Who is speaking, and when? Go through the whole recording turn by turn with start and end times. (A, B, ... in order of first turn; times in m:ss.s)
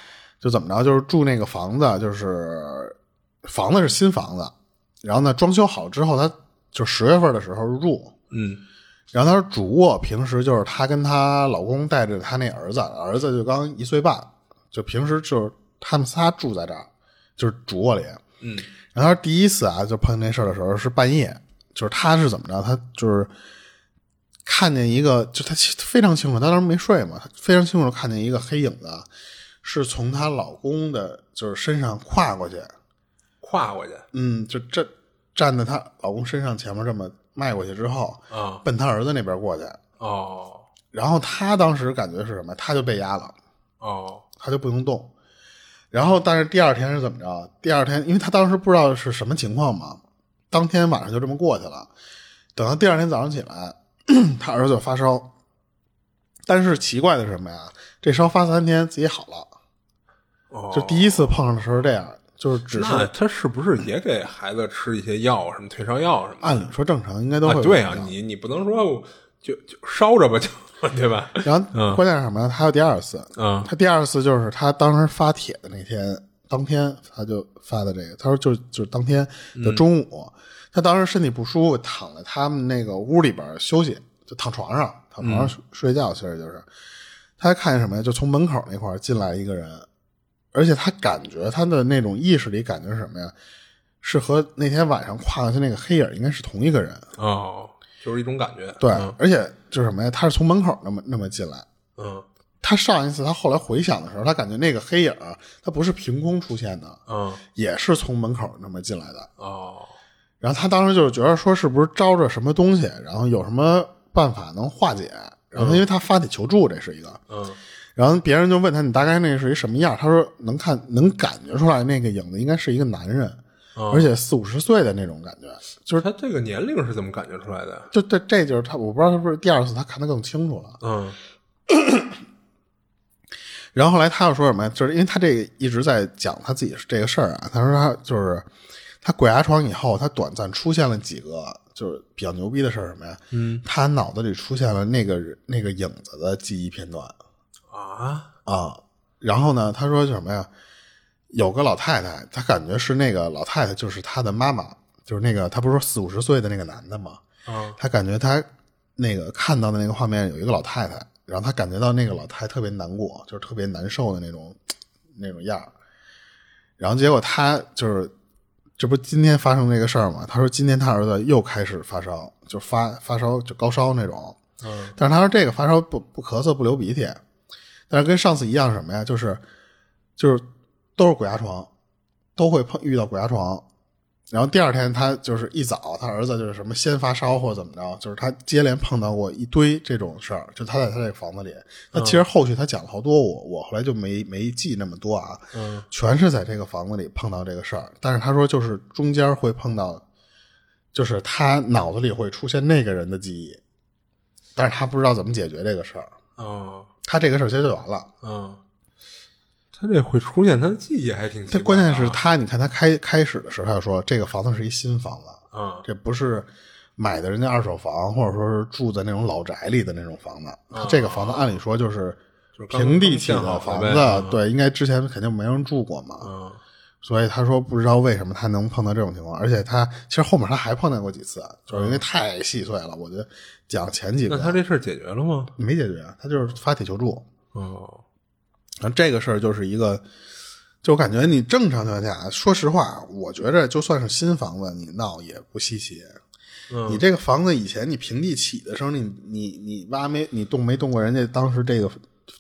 0:00.4-0:08.2 A
0:08.3-0:08.6 B
0:09.1-0:18.2 A
0:18.4-0:18.7 B
0:18.9-0:23.3 A
0:24.5-0:29.1 A
0:29.6-0:32.7 A
0:33.4-0:34.1 B
0:34.1-0:39.8 A
0:38.3-0:38.6 B
0:40.0-0:40.7 B
0:40.9-0:43.4 A
0:43.8-0:44.2 B
0:44.4-0:45.1 A
0:45.9-0:51.9 A
0:52.6-0:55.3 A
0:56.5-0:59.5 A
1:00.5-1:01.4 B
1:00.7-1:03.1 A
1:02.7-1:06.6 B
1:06.4-1:08.1 A
1:07.4-1:12.0 B
1:11.4-1:26.7 A
1:13.4-1:13.7 B
1:19.6-1:19.8 B
1:25.2-1:25.5 B
1:27.4-1:29.9 A
1:30.5-1:33.3 A
1:34.0-1:37.1 A
1:37.2-1:39.2 B
1:38.8-1:41.7 A
1:42.0-1:42.3 B
1:42.6-1:47.0 A
1:47.1-1:47.4 B
1:47.6-1:49.3 A
1:49.4-1:49.9 B
1:50.4-1:57.2 A
1:55.6-1:55.8 B
1:57.3-1:57.6 B
1:58.0-2:03.4 A
2:03.8-2:04.1 B
2:03.9-2:06.1 A
2:06.0-2:07.9 B
2:07.9-2:10.8 A
2:10.8-2:11.2 B
2:11.7-2:12.2 A
2:13.7-2:18.5 A
2:19.0-2:27.2 A
2:23.3-2:23.6 B
2:27.7-2:28.3 B
2:28.5-2:30.5 A
2:31.3-2:37.2 A
2:37.5-2:37.8 B
2:37.8-2:44.6 A
2:45.1-2:45.7 A
2:46.8-2:48.1 A
2:48.8-2:54.4 A
2:54.6-2:55.0 B
2:55.0-2:57.2 A
2:57.9-2:59.4 A
3:00.2-3:00.4 A
3:01.0-3:01.7 A
3:02.4-3:03.7 A
3:04.3-3:20.0 A
3:11.9-3:12.2 B
3:15.5-3:15.9 B
3:20.9-3:23.6 A
3:24.6-3:26.1 A
3:26.4-3:26.9 B
3:27.0-3:28.1 A
3:28.2-3:28.6 B
3:29.8-3:32.2 B
3:31.5-3:42.2 A
3:35.5-3:35.8 B
3:40.7-3:41.5 B
3:42.6-3:44.4 B
3:42.7-3:46.3 A
3:46.2-3:46.6 B
3:47.0-3:54.6 A
3:51.7-3:52.0 B
3:54.3-3:55.5 B
3:55.6-3:57.3 A
3:57.5-3:58.0 B
3:58.8-4:00.0 A
4:00.8-4:06.2 A
4:06.7-4:07.0 B
4:06.9-4:12.0 A